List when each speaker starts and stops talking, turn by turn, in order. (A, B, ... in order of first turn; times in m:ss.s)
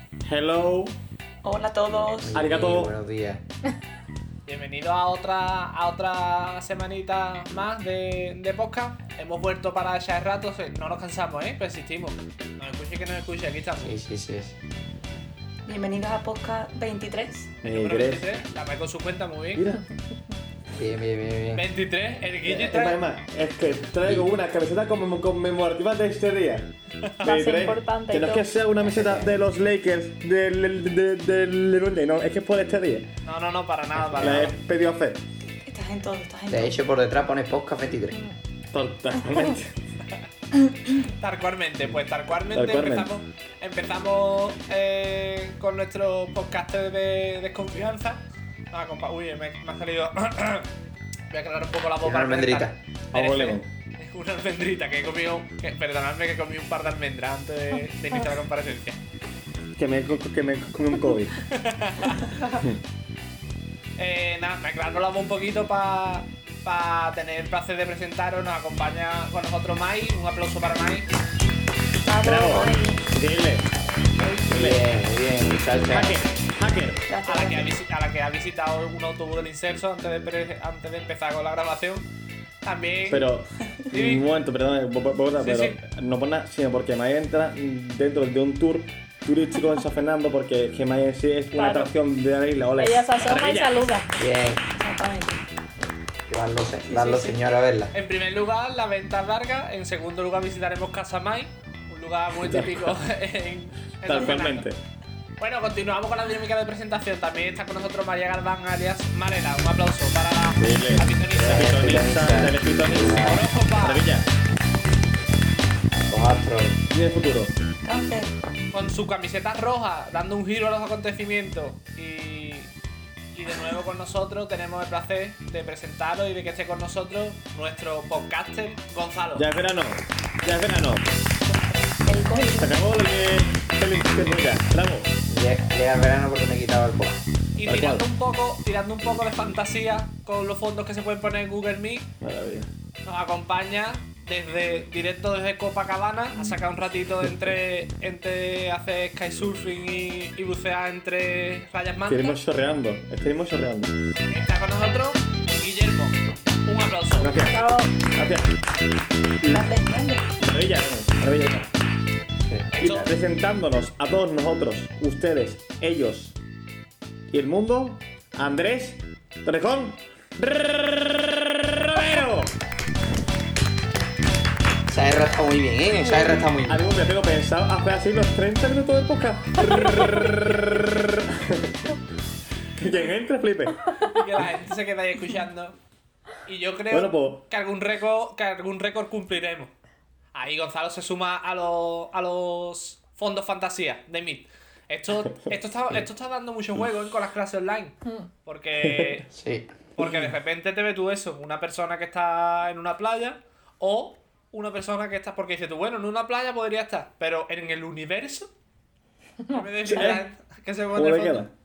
0:00.2-0:01.0 A
0:01.4-0:02.4 B
0:02.2-0:03.4 C
0:02.3-0:02.9 A
0:04.4-0:14.0 D
0:13.8-0:14.6 C
0:15.6-0:17.6 B
0:17.6-0:18.3 A
0:17.6-0:19.7 D
0:19.5-0:19.8 A
0:20.7-0:21.6 C
0:21.5-0:23.0 D
0:22.4-0:33.1 A
0:27.2-0:28.5 E
0:28.8-0:29.3 C
0:33.2-0:34.6 D
0:34.1-0:35.2 A
0:35.6-0:36.8 B
0:36.5-0:38.2 C
0:38.7-0:39.8 A
0:40.9-0:50.7 D
0:42.5-0:43.1 A
0:51.3-0:59.0 D
0:52.0-0:52.8 C
0:53.1-0:53.7 A
0:59.8-1:01.4 A
1:01.4-1:02.4 D
1:04.0-1:11.1 D
1:12.1-1:13.1 E
1:12.2-1:13.7 A
1:14.4-1:14.8 A
1:14.5-1:16.2 C
1:15.9-1:17.0 A
1:17.1-1:17.7 B
1:17.2-1:22.1 D
1:22.6-1:23.3 D
1:23.0-1:33.2 A
1:23.9-1:24.2 D
1:25.4-1:25.8 D
1:31.5-1:31.9 E
1:32.8-1:34.2 E
1:33.2-1:33.8 D
1:34.2-1:34.6 C
1:34.7-1:35.4 B
1:36.3-1:37.9 C
1:36.9-1:37.4 B
1:37.9-1:44.7 D
1:42.4-1:43.0 A
1:44.0-1:44.8 A
1:45.4-1:52.1 D
1:50.6-1:54.3 A
1:51.3-1:53.4 C
1:53.2-1:54.0 D
1:56.1-1:56.8 C
1:56.9-1:57.5 A
1:57.8-1:58.3 B
1:58.7-2:02.7 D
2:03.3-2:09.5 D
2:09.4-2:11.1 A
2:12.0-2:12.8 B
2:12.5-2:15.1 A
2:15.3-2:17.2 C
2:17.6-2:22.1 D
2:17.6-2:18.0 A
2:22.2-2:22.7 A
2:23.0-2:32.4 D
2:32.1-2:33.9 A
2:34.3-2:37.3 D
2:37.2-2:38.5 A
2:37.5-2:37.9 E
2:39.4-2:39.6 A
2:39.4-2:40.3 B
2:40.4-2:41.7 A
2:42.5-2:43.1 C
2:42.7-2:43.1 D
2:42.8-2:46.4 A
2:47.3-2:52.5 A
2:54.9-2:56.8 C
2:56.1-2:56.4 E
2:56.6-3:02.0 A
3:02.7-3:03.8 A
3:04.0-3:05.8 D
3:06.4-3:09.7 D
3:06.9-3:07.4 A
3:10.3-3:19.3 D
3:18.8-3:19.2 A
3:19.3-3:19.8 C
3:20.0-3:28.5 D
3:29.5-3:31.5 D
3:29.8-3:30.2 A
3:30.9-3:31.5 A